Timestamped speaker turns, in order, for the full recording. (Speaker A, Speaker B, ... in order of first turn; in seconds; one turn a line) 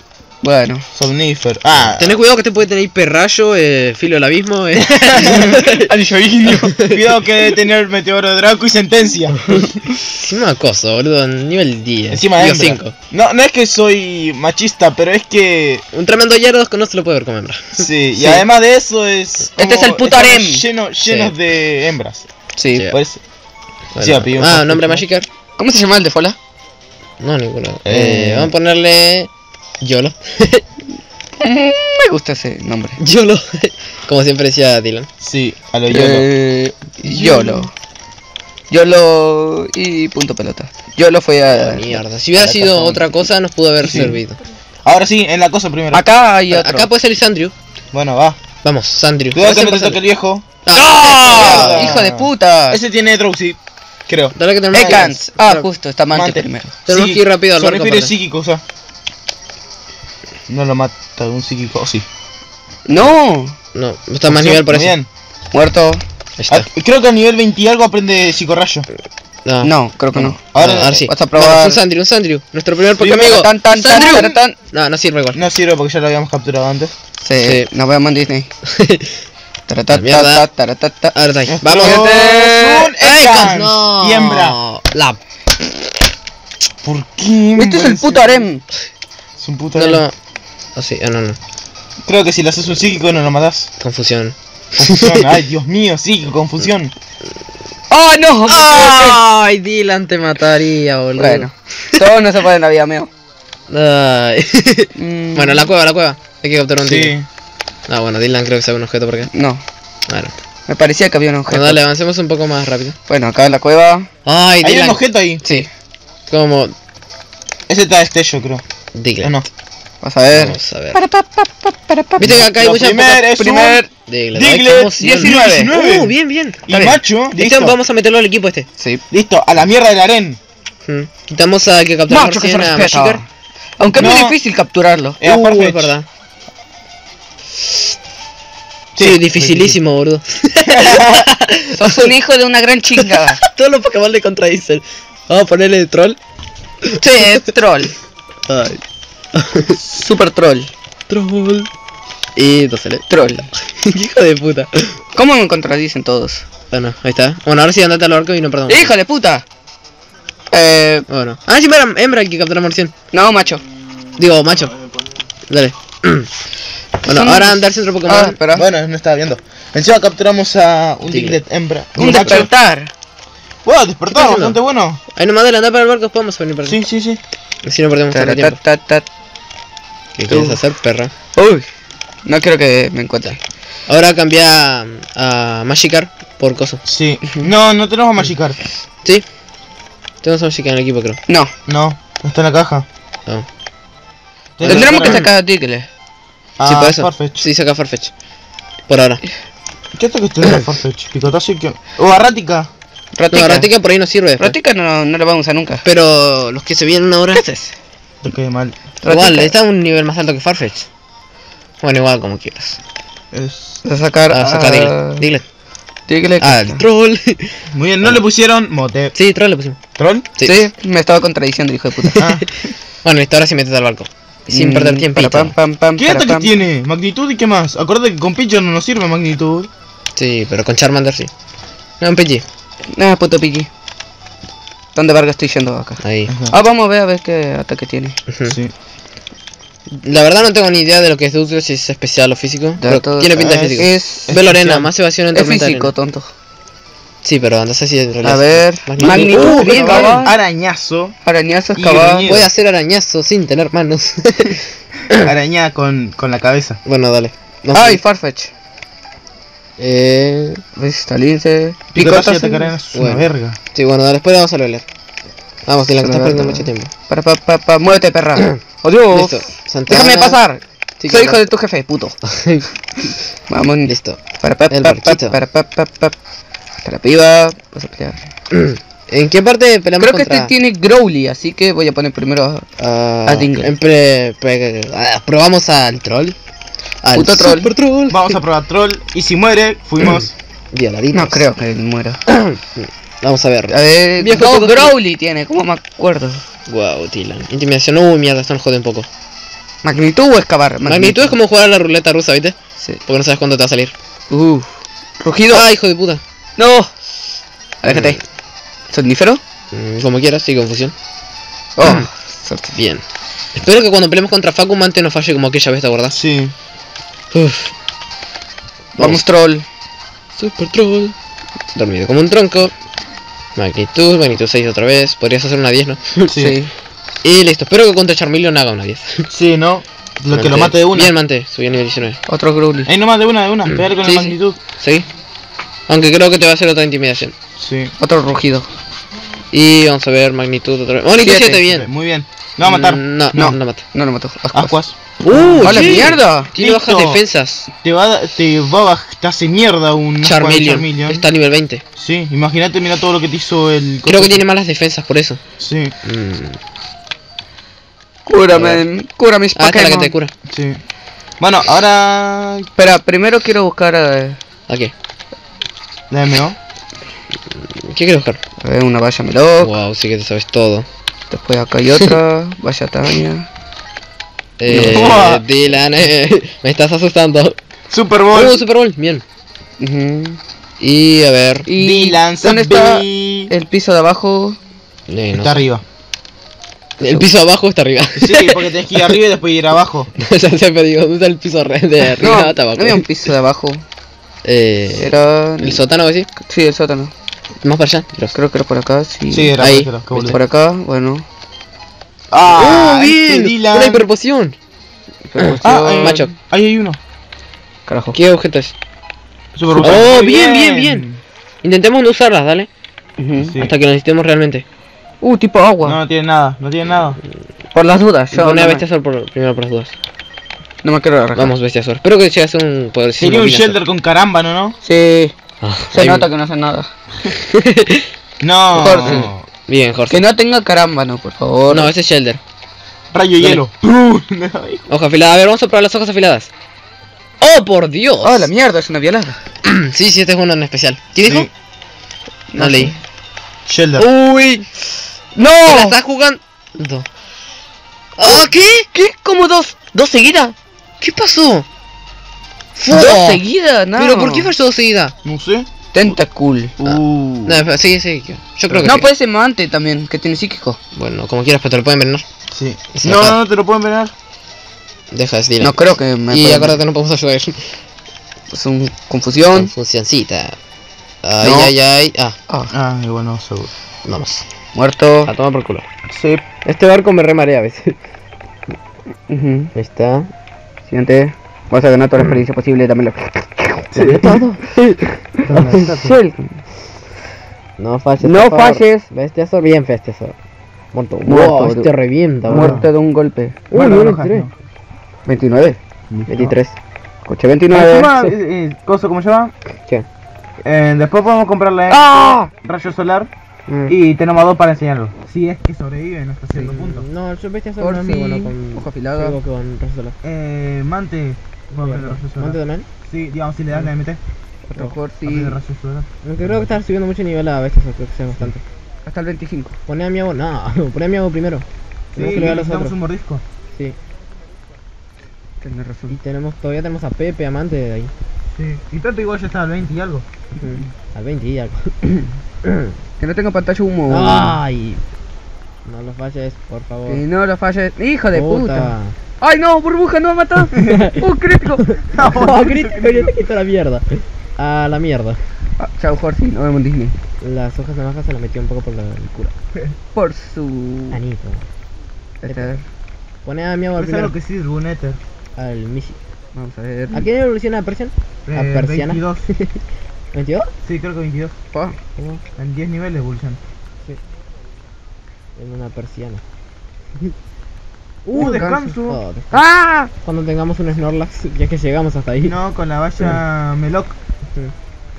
Speaker A: 0.4-0.8
Speaker B: 0.9-2.1
Speaker C: 1.9-5.9
Speaker B: 4.9-5.6
Speaker A: 5.2-6.8
Speaker C: 6.4-7.1
Speaker B: 6.8-9.8
Speaker C: 9.5-12.9
Speaker B: 12.1-15.8
Speaker C: 15.9-17.9
Speaker B: 17.8-22.2
Speaker A: 19.6-21.3
Speaker A: 22.6-22.9
Speaker B: 22.8-23.2
Speaker C: 23.9-25.3
Speaker B: 24.0-25.0
Speaker A: 25.6-26.4
Speaker C: 27.2-29.3
Speaker B: 27.8-28.5
Speaker C: 29.8-30.6
Speaker A: 31.4-33.0
Speaker C: 33.0-35.1
Speaker B: 35.2-36.3
Speaker A: 35.9-37.7
Speaker B: 37.0-37.7
Speaker A: 38.7-43.0
Speaker C: 41.5-44.4
Speaker A: 43.8-44.2
Speaker B: 44.8-46.1
Speaker A: 45.9-46.9
Speaker C: 46.5-47.5
Speaker B: 47.9-48.4
Speaker C: 48.6-50.0
Speaker B: 49.3-50.5
Speaker C: 50.6-51.9
Speaker A: 50.7-52.8
Speaker B: 51.2-55.1
Speaker C: 54.3-55.7
Speaker A: 54.7-56.7
Speaker B: 56.1-58.6
Speaker C: 56.9-58.1
Speaker B: 60.5-62.0
Speaker A: 62.9-63.5
Speaker C: 63.7-64.9
Speaker B: 64.3-65.1
Speaker A: 65.5-66.0
Speaker C: 66.4-66.7
Speaker B: 66.5-68.9
Speaker C: 69.5-69.7
Speaker A: 69.6-71.8
Speaker B: 70.1-71.0
Speaker C: 70.5-75.4
Speaker A: 73.0-74.5
Speaker B: 73.0-73.3
Speaker B: 75.3-76.9
Speaker A: 77.2-78.5
Speaker C: 77.4-77.7
Speaker C: 78.7-79.1
Speaker A: 79.7-82.9
Speaker C: 79.9-80.5
Speaker C: 81.1-82.2
Speaker B: 81.5-84.6
Speaker C: 83.0-85.2
Speaker B: 86.8-88.5
Speaker A: 87.6-88.6
Speaker B: 89.4-90.0
Speaker C: 89.8-90.1
Speaker C: 90.8-91.4
Speaker B: 92.0-93.7
Speaker C: 93.8-95.3
Speaker B: 94.8-96.9
Speaker A: 97.9-99.2
Speaker C: 98.5-102.0
Speaker A: 101.2-103.1
Speaker C: 103.7-107.2
Speaker A: 105.0-105.7
Speaker B: 106.8-107.2
Speaker C: 107.9-109.3
Speaker A: 109.3-109.6
Speaker C: 110.1-110.3
Speaker A: 110.7-111.8
Speaker C: 111.5-113.0
Speaker A: 113.1-114.1
Speaker C: 114.2-115.7
Speaker B: 114.6-115.4
Speaker C: 116.3-116.7
Speaker B: 117.7-118.6
Speaker C: 118.9-119.4
Speaker A: 120.0-122.4
Speaker C: 120.3-121.0
Speaker C: 122.2-123.3
Speaker B: 122.3-126.1
Speaker A: 123.3-123.9
Speaker C: 124.1-126.6
Speaker A: 125.0-125.7
Speaker B: 126.7-127.8
Speaker A: 126.7-127.0
Speaker C: 127.3-128.7
Speaker B: 129.1-130.4
Speaker C: 130.8-133.2
Speaker A: 132.1-133.2
Speaker A: 133.8-135.2
Speaker B: 133.9-134.4
Speaker B: 135.2-135.9
Speaker C: 135.2-136.1
Speaker B: 138.9-139.8
Speaker C: 139.0-142.1
Speaker B: 140.7-141.3
Speaker A: 141.8-143.4
Speaker C: 143.0-146.2
Speaker A: 147.0-147.9
Speaker B: 148.5-148.8
Speaker C: 149.3-149.8
Speaker A: 149.8-150.7
Speaker C: 151.1-151.7
Speaker C: 152.3-153.1
Speaker A: 153.1-153.5
Speaker C: 153.7-155.0
Speaker A: 155.1-156.4
Speaker C: 156.7-158.9
Speaker A: 158.7-159.4
Speaker A: 160.5-161.1
Speaker C: 161.1-162.9
Speaker A: 163.1-163.6
Speaker C: 164.2-164.8
Speaker C: 165.5-166.3
Speaker C: 167.0-168.4
Speaker A: 167.1-168.7
Speaker B: 168.5-172.5
Speaker C: 171.1-171.4
Speaker A: 172.0-172.9
Speaker B: 173.6-175.0
Speaker C: 174.1-174.6
Speaker C: 175.1-176.8
Speaker B: 176.6-177.2
Speaker C: 177.6-178.6
Speaker A: 178.1-179.1
Speaker C: 180.2-181.1
Speaker A: 180.3-180.6
Speaker A: 181.3-181.6
Speaker A: 182.2-183.4
Speaker C: 183.9-186.8
Speaker B: 186.8-188.6
Speaker C: 190.2-191.2
Speaker B: 191.7-192.8
Speaker B: 194.6-195.3
Speaker C: 194.6-195.2
Speaker A: 194.6-195.9
Speaker B: 196.6-197.5
Speaker C: 196.6-198.1
Speaker C: 198.9-199.2
Speaker B: 199.9-202.7
Speaker A: 203.1-203.7
Speaker C: 203.3-204.6
Speaker A: 204.4-205.8
Speaker C: 205.8-207.4
Speaker A: 207.3-207.7
Speaker B: 208.2-208.8
Speaker A: 209.0-209.5
Speaker C: 209.0-210.9
Speaker C: 211.8-212.8
Speaker B: 213.3-213.8
Speaker A: 213.8-215.2
Speaker C: 214.3-215.4
Speaker A: 216.1-216.8
Speaker C: 216.4-217.6
Speaker B: 217.7-219.1
Speaker C: 219.1-219.8
Speaker B: 219.9-220.3
Speaker C: 220.3-220.6
Speaker A: 220.4-222.2
Speaker B: 222.2-222.5
Speaker C: 223.0-225.5
Speaker A: 224.5-226.5
Speaker B: 226.0-229.7
Speaker C: 230.2-231.3
Speaker C: 232.0-232.4
Speaker A: 232.9-233.7
Speaker A: 234.9-238.2
Speaker C: 236.0-236.3
Speaker B: 236.3-236.6
Speaker C: 238.3-238.6
Speaker C: 239.9-245.9
Speaker A: 242.8-244.6
Speaker B: 243.4-244.9
Speaker A: 245.3-246.3
Speaker C: 247.2-250.3
Speaker A: 248.2-250.4
Speaker B: 249.0-251.2
Speaker A: 251.2-252.3
Speaker B: 251.8-252.5
Speaker C: 252.2-255.3
Speaker B: 255.1-256.8
Speaker C: 256.8-258.0
Speaker A: 257.7-258.5
Speaker C: 259.8-260.6
Speaker A: 260.8-262.7
Speaker B: 261.9-263.6
Speaker C: 262.9-264.8
Speaker C: 265.7-266.9
Speaker A: 266.0-272.1
Speaker C: 269.1-270.4
Speaker C: 271.0-271.5
Speaker C: 272.3-272.6
Speaker A: 273.5-276.1
Speaker C: 273.9-274.2
Speaker C: 274.7-275.4
Speaker A: 276.8-278.2
Speaker C: 278.5-280.5
Speaker A: 280.0-282.6
Speaker C: 282.8-286.4
Speaker A: 283.2-283.7
Speaker C: 287.0-288.4
Speaker A: 287.1-287.7
Speaker B: 288.1-290.3
Speaker C: 290.7-291.4
Speaker A: 291.1-292.2
Speaker C: 292.3-294.9
Speaker A: 293.7-296.4
Speaker C: 296.7-299.1
Speaker A: 299.8-301.3
Speaker C: 300.8-303.9
Speaker A: 304.3-305.6
Speaker C: 305.5-306.2
Speaker A: 306.6-306.9
Speaker A: 307.8-308.2
Speaker C: 307.9-308.2
Speaker A: 308.9-309.4
Speaker C: 309.7-310.9
Speaker A: 311.8-312.7
Speaker C: 311.8-312.1
Speaker C: 312.7-313.0
Speaker C: 313.5-316.2
Speaker B: 316.1-316.5
Speaker C: 317.3-317.7
Speaker C: 319.0-319.2
Speaker A: 319.0-319.6
Speaker C: 320.4-321.1
Speaker C: 321.7-322.7
Speaker C: 323.6-326.4
Speaker B: 326.3-326.6
Speaker A: 326.3-326.7
Speaker C: 327.2-329.3
Speaker B: 329.3-331.1
Speaker C: 330.3-332.2
Speaker A: 332.3-332.9
Speaker B: 332.9-334.6
Speaker A: 334.0-334.3
Speaker C: 334.8-335.1
Speaker C: 335.9-337.3
Speaker B: 337.6-337.9
Speaker A: 338.0-338.7
Speaker C: 339.5-341.9
Speaker A: 341.2-341.7
Speaker B: 341.8-343.6
Speaker C: 342.6-343.8
Speaker A: 343.9-344.8
Speaker B: 344.5-351.2
Speaker C: 345.2-347.7
Speaker A: 345.6-346.5
Speaker C: 350.2-351.8
Speaker B: 352.0-354.4
Speaker C: 354.1-355.4
Speaker B: 355.6-355.9
Speaker C: 356.0-356.6
Speaker A: 358.2-360.1
Speaker C: 358.5-358.8
Speaker C: 359.6-360.3
Speaker B: 360.5-360.8
Speaker B: 361.4-362.7
Speaker A: 362.8-364.4
Speaker B: 366.1-366.6
Speaker C: 367.8-368.4
Speaker A: 368.6-369.8
Speaker C: 369.6-370.9
Speaker A: 371.3-373.4
Speaker C: 374.6-377.6
Speaker A: 374.7-375.4
Speaker B: 374.8-375.4
Speaker B: 377.9-378.6
Speaker C: 378.3-379.2
Speaker A: 379.8-380.4
Speaker C: 380.8-381.7
Speaker A: 381.7-384.6
Speaker B: 381.8-383.5
Speaker C: 385.1-385.6
Speaker B: 385.4-385.8
Speaker C: 387.0-389.1
Speaker B: 388.1-390.1
Speaker C: 390.2-393.0
Speaker A: 392.2-393.8
Speaker C: 394.4-396.3
Speaker A: 395.0-395.8
Speaker A: 396.4-397.1
Speaker C: 397.6-398.3
Speaker A: 398.3-399.6
Speaker B: 399.3-400.4
Speaker C: 399.6-400.2
Speaker A: 400.2-401.2
Speaker B: 402.3-404.1
Speaker C: 402.5-404.6
Speaker A: 405.3-406.2
Speaker C: 405.4-406.3
Speaker B: 405.6-407.0
Speaker A: 407.9-408.2
Speaker C: 408.1-408.7
Speaker B: 409.5-411.2
Speaker C: 409.8-411.0
Speaker C: 411.6-412.7
Speaker A: 413.2-413.5
Speaker B: 413.4-413.7
Speaker C: 413.6-414.6
Speaker A: 415.2-416.0
Speaker B: 415.8-417.2
Speaker A: 417.7-418.8
Speaker C: 418.3-419.9
Speaker A: 420.8-421.5
Speaker C: 421.4-423.8
Speaker B: 423.2-424.8
Speaker A: 424.8-425.3
Speaker C: 425.6-426.3
Speaker A: 425.9-426.9
Speaker C: 427.3-428.1
Speaker B: 428.4-429.4
Speaker A: 428.7-429.3
Speaker C: 428.8-430.2
Speaker A: 430.1-431.9
Speaker C: 431.7-432.4
Speaker B: 433.1-434.8
Speaker C: 434.9-436.5
Speaker C: 437.4-438.5
Speaker A: 438.2-439.4
Speaker C: 439.6-441.5
Speaker B: 441.2-441.5
Speaker A: 442.5-442.9
Speaker C: 442.6-442.9
Speaker B: 443.7-444.1
Speaker A: 444.0-444.7
Speaker A: 445.3-446.0
Speaker C: 445.6-447.1
Speaker C: 448.2-448.9
Speaker A: 448.2-450.5
Speaker C: 451.0-451.6
Speaker C: 452.8-453.4
Speaker A: 452.9-454.5
Speaker C: 453.9-455.1
Speaker B: 455.2-455.7
Speaker A: 455.9-457.4
Speaker C: 456.8-459.1
Speaker B: 458.7-459.0
Speaker A: 458.8-460.8
Speaker C: 460.9-462.2
Speaker B: 462.5-464.1
Speaker C: 462.9-463.4
Speaker C: 465.1-465.8
Speaker A: 465.6-466.8
Speaker C: 466.3-467.6
Speaker A: 468.5-469.7
Speaker C: 469.5-470.6
Speaker C: 471.2-472.4
Speaker A: 471.4-471.7
Speaker B: 472.7-473.7
Speaker C: 474.0-474.4
Speaker A: 474.7-475.3
Speaker C: 475.2-475.9
Speaker B: 476.1-476.4
Speaker C: 476.6-477.9
Speaker A: 479.3-479.7
Speaker C: 479.7-480.3
Speaker A: 480.9-484.4
Speaker B: 483.9-484.4
Speaker C: 483.9-485.9
Speaker A: 485.4-486.6
Speaker B: 485.4-486.2
Speaker C: 487.8-490.3
Speaker A: 488.2-489.1
Speaker C: 490.9-492.8
Speaker A: 491.2-491.9
Speaker A: 492.5-493.6
Speaker B: 492.5-492.9
Speaker C: 493.7-494.5
Speaker B: 493.7-494.5
Speaker A: 495.2-495.8
Speaker B: 496.1-496.5
Speaker C: 496.3-496.8
Speaker A: 497.2-498.1
Speaker B: 497.7-499.5
Speaker B: 500.6-503.3
Speaker A: 501.9-502.5
Speaker C: 503.7-503.9
Speaker B: 503.9-507.1
Speaker C: 506.5-510.1
Speaker A: 507.8-509.4
Speaker B: 510.2-514.2
Speaker C: 511.7-512.9
Speaker A: 514.7-515.6
Speaker B: 515.2-516.7
Speaker C: 516.2-518.6
Speaker A: 519.0-519.8
Speaker C: 519.9-523.0
Speaker B: 522.1-523.4
Speaker A: 525.6-526.1
Speaker C: 526.1-528.1
Speaker B: 528.5-530.9
Speaker C: 530.6-532.0
Speaker C: 532.6-532.9
Speaker A: 533.2-534.6
Speaker C: 534.1-535.0
Speaker C: 535.8-537.2
Speaker A: 537.1-541.8
Speaker C: 538.3-539.1
Speaker B: 540.8-541.0
Speaker C: 540.8-541.2
Speaker C: 541.8-545.4
Speaker B: 542.1-543.4
Speaker A: 545.8-547.1
Speaker C: 547.4-549.5
Speaker A: 550.1-551.2
Speaker C: 551.1-551.6
Speaker A: 552.4-552.8
Speaker C: 552.5-552.7
Speaker C: 553.4-554.3
Speaker B: 554.0-555.2
Speaker C: 555.5-556.2
Speaker A: 556.5-557.3
Speaker C: 557.1-559.8
Speaker B: 558.5-559.5
Speaker C: 560.3-560.7
Speaker B: 560.8-561.5
Speaker A: 561.7-562.0
Speaker B: 562.5-563.6
Speaker C: 565.6-566.4
Speaker A: 568.3-569.0
Speaker B: 568.3-569.2
Speaker C: 568.4-569.6
Speaker A: 569.5-570.1
Speaker C: 570.2-572.5
Speaker B: 572.4-574.2